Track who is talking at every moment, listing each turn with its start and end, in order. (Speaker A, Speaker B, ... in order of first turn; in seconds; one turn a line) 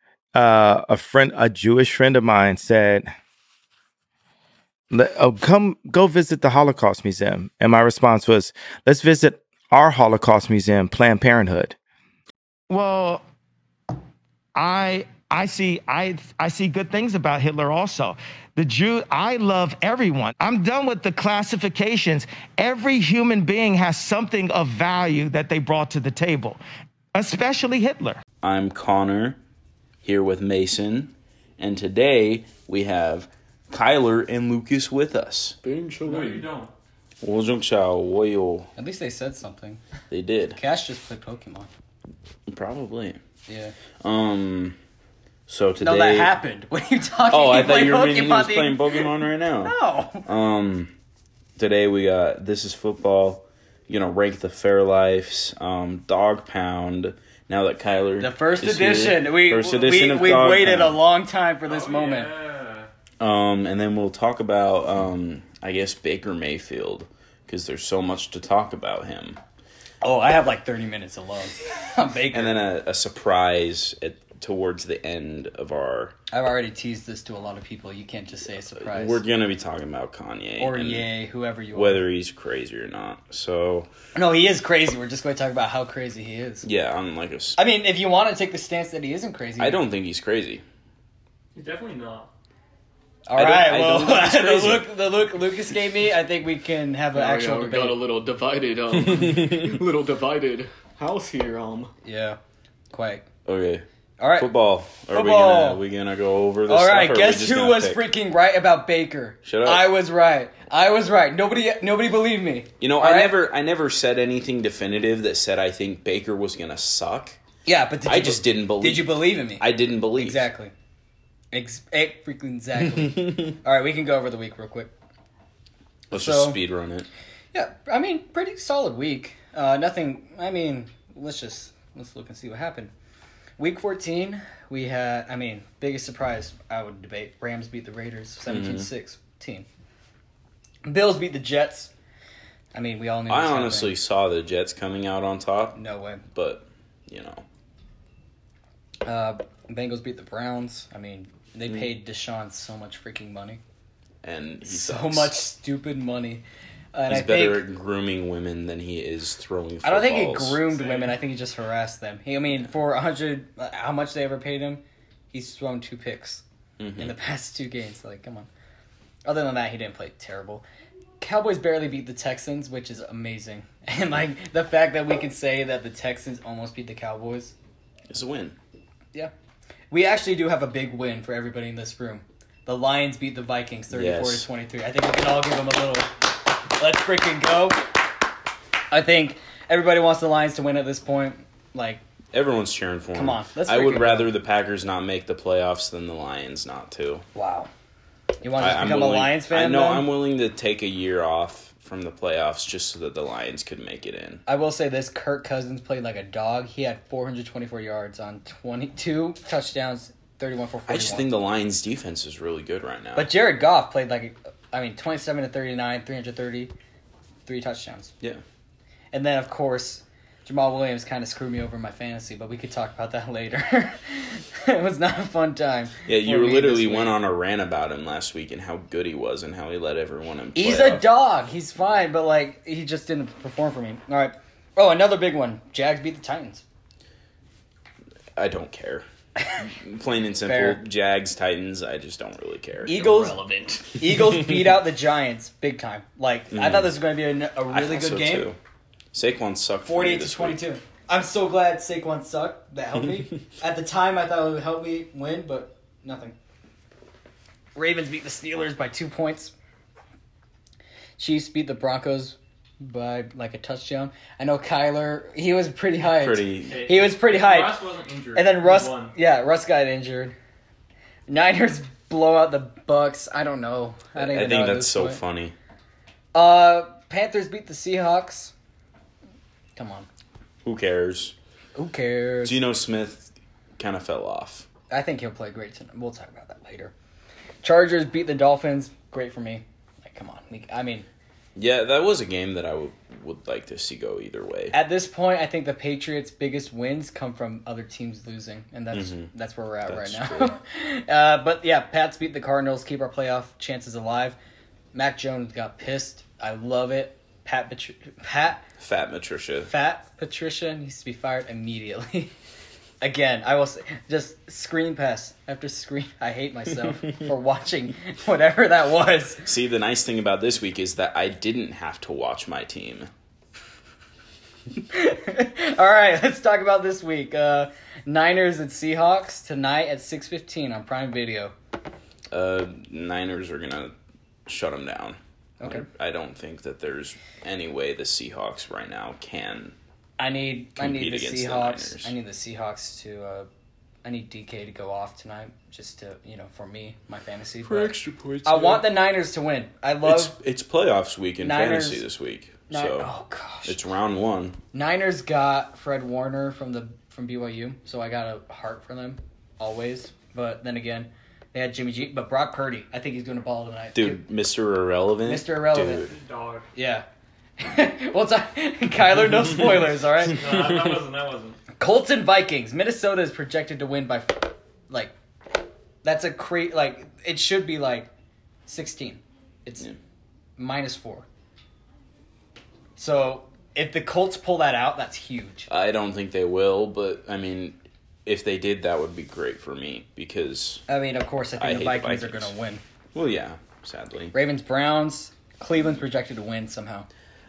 Speaker A: 0.3-3.1
Speaker A: 4.9-11.8
Speaker B: 12.7-13.2
Speaker B: 14.5-26.6
Speaker B: 27.1-28.2
Speaker C: 28.4-29.4
Speaker C: 30.0-35.6
Speaker D: 35.6-36.5
Speaker E: 36.0-36.7
Speaker C: 37.2-38.7
Speaker F: 38.8-39.8
Speaker C: 40.1-40.6
Speaker F: 40.5-41.7
Speaker C: 42.5-43.2
Speaker F: 43.5-43.7
Speaker C: 44.0-44.8
Speaker C: 45.5-46.3
Speaker F: 45.8-49.1
Speaker C: 47.3-49.7
Speaker F: 49.6-50.3
Speaker C: 50.2-50.9
Speaker C: 51.6-61.0
Speaker F: 58.2-62.3
Speaker E: 61.6-62.9
Speaker C: 63.2-69.4
Speaker F: 70.0-72.5
Speaker C: 72.3-76.1
Speaker F: 76.3-79.2
Speaker C: 78.7-81.1
Speaker F: 80.6-82.0
Speaker C: 81.7-83.9
Speaker F: 84.1-86.7
Speaker C: 86.6-87.6
Speaker F: 87.6-89.8
Speaker C: 89.6-90.6
Speaker E: 91.5-92.3
Speaker F: 93.3-98.0
Speaker C: 93.3-94.9
Speaker D: 97.1-101.9
Speaker C: 99.1-99.8
Speaker F: 102.0-102.4
Speaker F: 102.9-103.2
Speaker C: 103.5-103.8
Speaker F: 104.2-104.5
Speaker C: 104.4-108.0
Speaker F: 105.1-105.8
Speaker F: 106.7-113.4
Speaker C: 109.4-109.9
Speaker C: 112.8-117.4
Speaker F: 117.7-120.7
Speaker C: 118.0-120.5
Speaker F: 121.5-124.9
Speaker F: 126.1-126.6
Speaker C: 126.1-127.1
Speaker F: 127.5-132.9
Speaker F: 133.6-139.7
Speaker C: 138.5-138.9
Speaker F: 140.8-141.9
Speaker F: 142.7-143.9
Speaker C: 143.3-145.8
Speaker F: 145.7-146.2
Speaker C: 146.3-147.4
Speaker F: 149.1-153.6
Speaker C: 154.2-155.3
Speaker F: 154.6-157.6
Speaker C: 157.1-160.6
Speaker F: 159.8-166.4
Speaker E: 160.8-161.2
Speaker C: 166.8-167.1
Speaker F: 167.0-168.5
Speaker F: 169.2-170.6
Speaker F: 171.2-177.5
Speaker C: 178.1-178.6
Speaker F: 179.9-186.1
Speaker C: 183.9-184.5
Speaker F: 186.8-187.8
Speaker F: 188.9-192.0
Speaker C: 192.3-197.2
Speaker F: 193.1-194.3
Speaker F: 197.3-197.7
Speaker F: 198.4-200.1
Speaker C: 198.6-204.4
Speaker F: 204.4-211.3
Speaker C: 210.9-213.3
Speaker F: 213.1-216.7
Speaker F: 217.4-218.1
Speaker F: 219.1-227.2
Speaker C: 226.1-231.1
Speaker F: 230.5-236.6
Speaker C: 238.3-239.1
Speaker C: 239.6-243.5
Speaker F: 240.4-240.8
Speaker F: 242.8-243.4
Speaker D: 243.0-244.0
Speaker F: 243.9-248.5
Speaker C: 246.5-246.9
Speaker C: 247.7-248.6
Speaker C: 249.1-250.7
Speaker F: 249.8-256.3
Speaker F: 257.8-259.5
Speaker F: 261.2-267.8
Speaker C: 266.0-266.8
Speaker E: 266.7-269.1
Speaker F: 268.3-270.4
Speaker F: 271.3-275.2
Speaker C: 274.1-275.6
Speaker F: 276.3-278.5
Speaker F: 279.8-280.1
Speaker C: 280.6-281.3
Speaker F: 281.8-282.6
Speaker C: 282.4-284.7
Speaker F: 284.9-286.9
Speaker F: 287.6-291.1
Speaker C: 291.6-294.8
Speaker F: 294.7-304.4
Speaker C: 298.9-299.3
Speaker C: 299.9-300.6
Speaker F: 304.9-308.6
Speaker C: 308.8-309.7
Speaker F: 309.7-312.3
Speaker F: 313.0-319.5
Speaker C: 319.4-323.1
Speaker F: 324.9-331.5
Speaker C: 332.3-333.9
Speaker C: 334.4-339.7
Speaker F: 335.6-335.9
Speaker F: 340.2-343.5
Speaker C: 340.8-342.1
Speaker F: 344.0-350.3
Speaker C: 347.6-348.9
Speaker C: 350.0-353.1
Speaker F: 351.4-352.0
Speaker F: 352.7-353.8
Speaker C: 353.6-354.6
Speaker F: 354.7-364.2
Speaker C: 363.9-366.1
Speaker F: 365.2-366.0
Speaker E: 366.1-366.7
Speaker F: 366.7-367.0
Speaker F: 367.6-370.7
Speaker E: 370.2-371.6
Speaker F: 371.8-375.1
Speaker F: 376.0-378.1
Speaker F: 378.6-379.9
Speaker F: 380.6-381.2
Speaker F: 382.9-385.7
Speaker C: 385.7-390.8
Speaker F: 390.9-392.8
Speaker C: 391.6-392.5
Speaker C: 393.1-394.3
Speaker F: 394.3-397.1